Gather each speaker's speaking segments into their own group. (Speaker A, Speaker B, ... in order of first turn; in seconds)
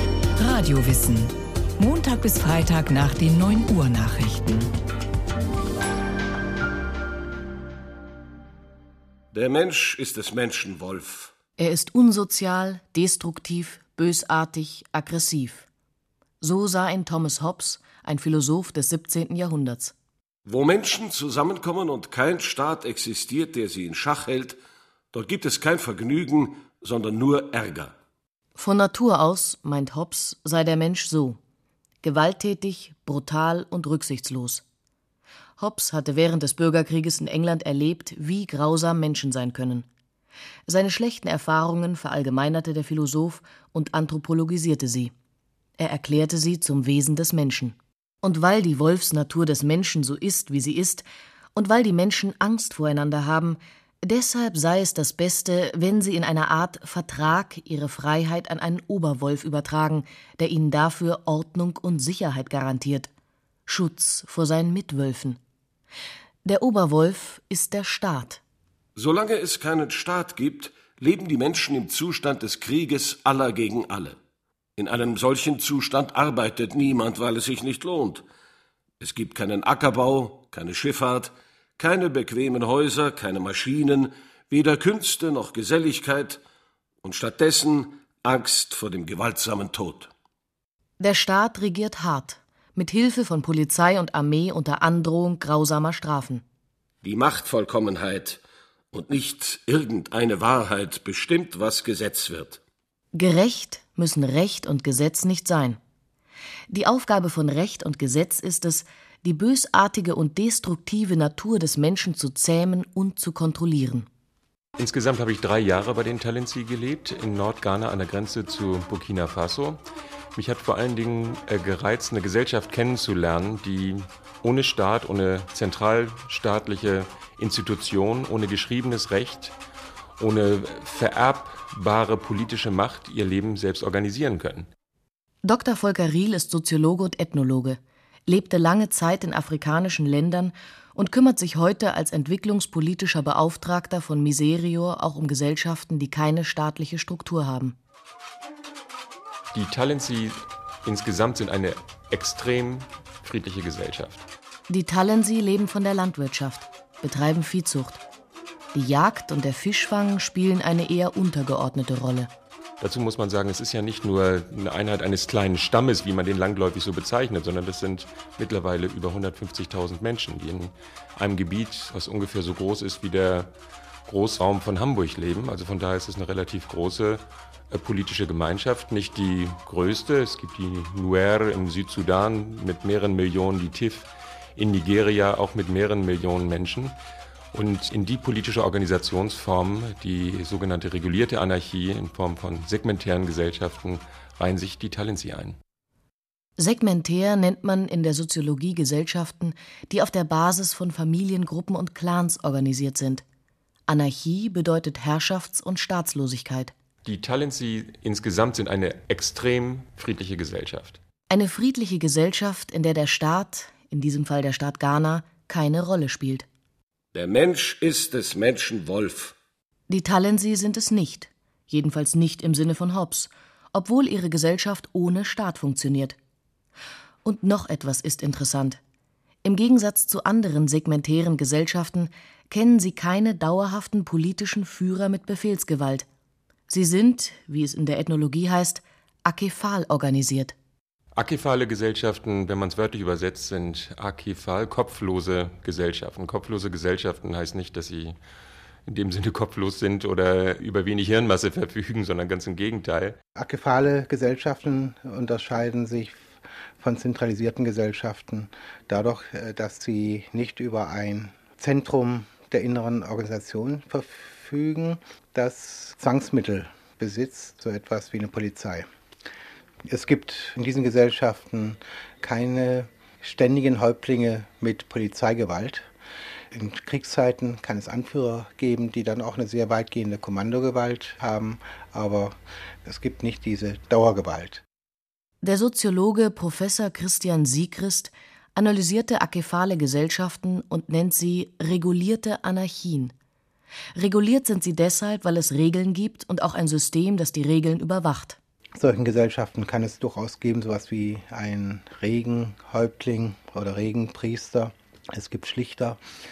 Speaker A: 0.4-4.7
Speaker B: 9.3-11.3, 20.4-24.6, 25.1-27.9, 68.9-74.2, 74.8-78.2, 79.0-86.4, 87.0-90.1, 97.0-98.4, 98.9-102.6, 217.1-219.3
Speaker C: 11.6-15.7, 16.4-19.9, 28.6-31.4, 32.0-34.6, 35.6-39.9, 40.7-45.1, 45.8-63.1, 63.7-65.4, 66.4-68.4, 91.0-96.4, 103.1-105.8, 106.7-114.1, 135.4-147.8, 154.7-158.0, 158.7-162.3, 196.6-203.2, 203.9-206.7, 211.3-216.5, 219.9-226.2, 227.2-228.8, 229.4-236.1, 236.7-240.5, 285.4-293.1, 293.9-298.4
Speaker D: 114.8-119.8, 120.3-129.6, 130.2-134.7, 149.5-154.2, 162.8-173.5, 174.1-187.0, 187.5-195.6, 207.0-211.0, 241.2-248.2, 248.8-253.2
Speaker E: 253.4-256.2, 256.8-268.9, 269.9-275.9, 276.5-284.6, 298.8-306.0